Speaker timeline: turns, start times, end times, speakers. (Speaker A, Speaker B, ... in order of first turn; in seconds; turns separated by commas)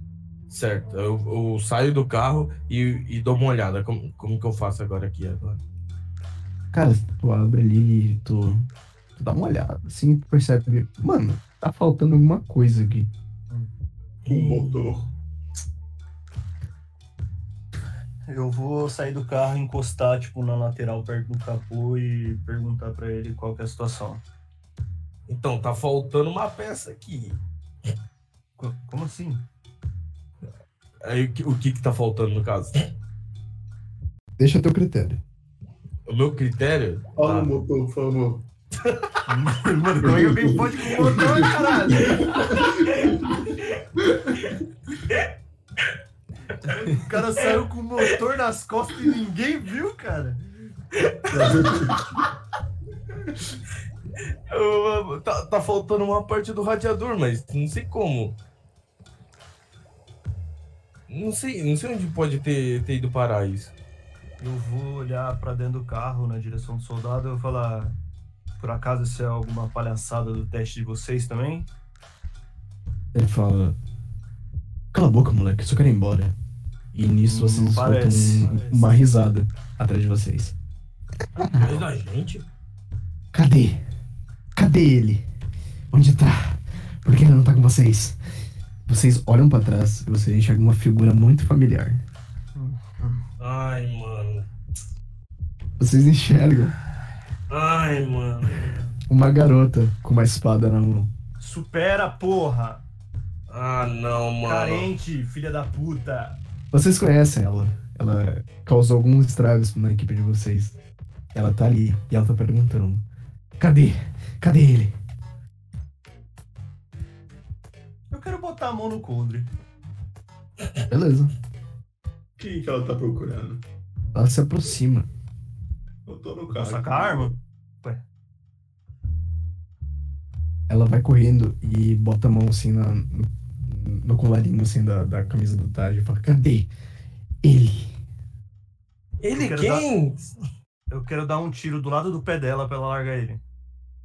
Speaker A: 0.5-5.6, Speaker B: 6.7-13.1, Speaker A: 14.2-14.9, Speaker C: 14.3-15.1, Speaker D: 18.3-24.2, Speaker A: 25.3-27.4, Speaker D: 28.6-29.4, Speaker A: 31.0-32.9, Speaker B: 34.4-35.2, Speaker A: 36.1-37.5, Speaker C: 37.2-38.5, Speaker A: 38.8-39.2, Speaker D: 39.3-42.5, Speaker C: 40.0-44.6, Speaker A: 42.5-43.8, Speaker D: 46.6-50.4, Speaker A: 47.4-48.0, Speaker A: 50.9-51.9, Speaker C: 51.3-52.1, Speaker A: 54.5-58.4, Speaker A: 61.1-63.7, Speaker D: 64.4-68.0, Speaker D: 68.6-71.7, Speaker B: 73.1-73.8, Speaker B: 74.9-76.3, Speaker B: 76.9-80.5, Speaker D: 77.3-78.9, Speaker B: 81.4-81.8, Speaker A: 81.5-82.5, Speaker B: 83.3-83.8, Speaker B: 84.6-85.2, Speaker B: 85.9-88.2, Speaker B: 88.9-92.0, Speaker D: 92.5-93.2, Speaker A: 93.4-94.5, Speaker B: 95.8-96.8, Speaker A: 97.5-98.9, Speaker B: 99.1-101.1, Speaker D: 101.4-102.8, Speaker A: 103.5-104.9, Speaker D: 104.4-106.4, Speaker B: 106.7-110.8, Speaker B: 111.3-113.0, Speaker B: 113.6-115.0, Speaker D: 118.1-119.5, Speaker B: 120.9-121.3, Speaker C: 122.4-123.6, Speaker B: 124.1-125.1, Speaker C: 126.1-127.3, Speaker D: 126.5-128.0, Speaker B: 130.7-136.7, Speaker B: 137.4-137.9, Speaker A: 139.2-140.3, Speaker D: 139.3-139.9, Speaker D: 140.9-143.4